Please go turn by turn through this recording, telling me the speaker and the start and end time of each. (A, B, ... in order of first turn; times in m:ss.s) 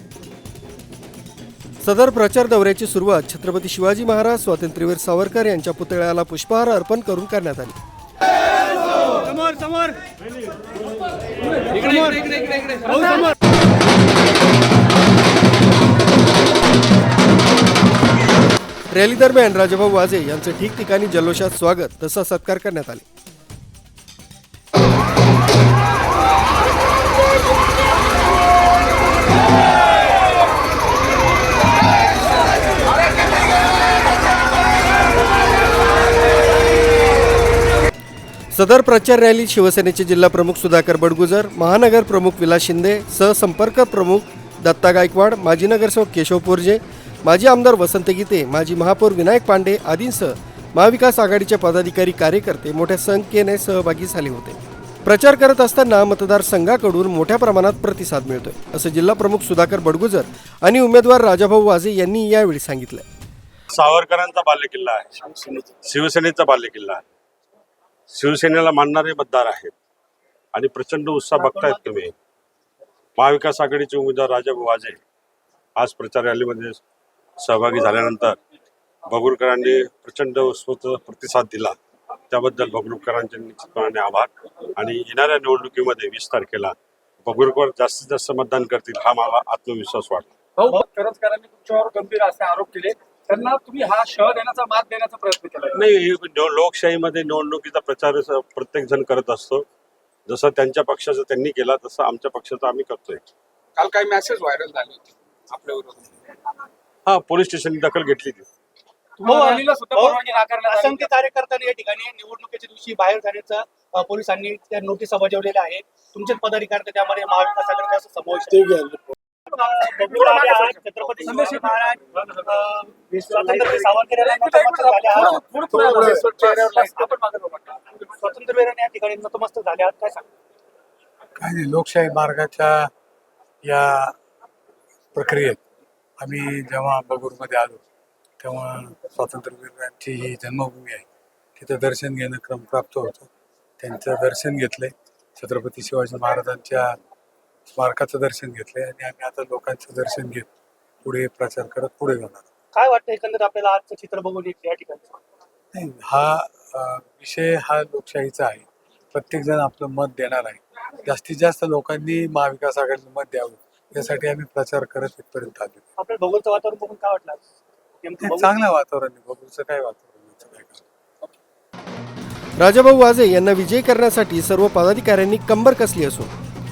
0:01.8-0:07.8 A
0:18.9-0:23.0 A
0:38.5-1:03.0 A
1:03.7-1:07.0 B
1:08.1-1:09.7 B
1:10.5-1:12.1 B
1:11.4-1:11.8 C
1:13.2-1:15.0 B
1:15.8-1:16.8 B
1:17.4-1:18.4 B
1:19.1-1:21.8 B
1:22.3-1:30.3 B
1:30.6-1:35.8 D
1:35.7-1:39.6 B
1:40.3-1:43.2 B
1:43.7-1:46.2 E
1:47.0-1:48.4 B
1:49.2-1:51.1 D
1:49.2-1:58.9 C
1:59.4-2:07.2 C
2:00.1-2:00.4 D
2:01.2-2:01.9 D
2:04.2-2:07.8 D
2:08.0-2:10.3 C
2:11.4-2:12.9 F
2:13.6-2:14.1 F
2:15.1-2:15.6 F
2:16.2-2:17.8 F
2:18.4-2:27.0 F
2:27.7-2:30.5 F
2:31.0-2:32.5 F
2:32.7-2:35.2 C
2:35.7-2:45.8 F
2:46.0-2:47.5 C
2:48.0-2:48.6 C
2:48.2-2:50.8 F
2:52.6-2:56.3 A